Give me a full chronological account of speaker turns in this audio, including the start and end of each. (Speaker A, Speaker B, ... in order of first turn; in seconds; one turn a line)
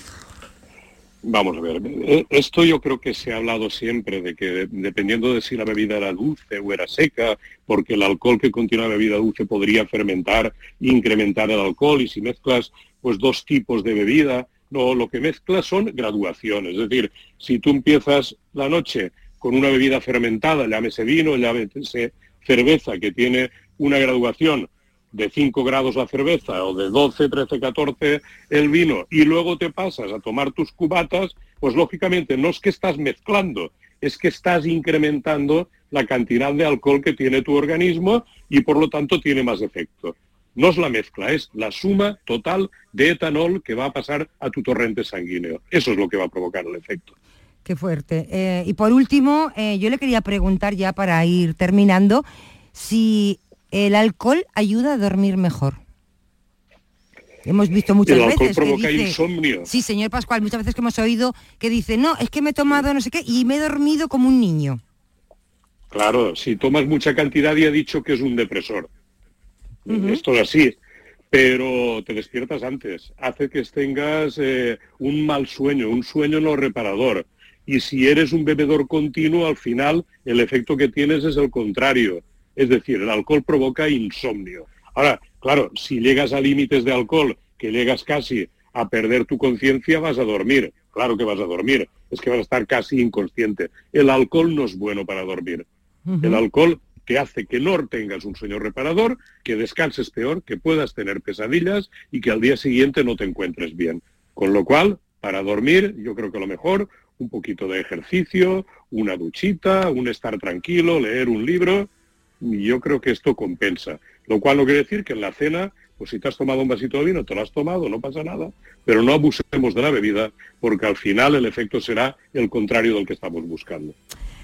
Speaker A: 1.2-47.1
Speaker B: 47.6-55.8
Speaker B: 57.4-64.8
Speaker A: 58.0-59.7
Speaker A: 65.9-68.9
Speaker A: 69.9-70.8
Speaker B: 69.9-70.2
Speaker A: 71.3-95.7
Speaker B: 96.1-96.4
Speaker A: 96.2-111.9
Speaker A: 112.4-123.9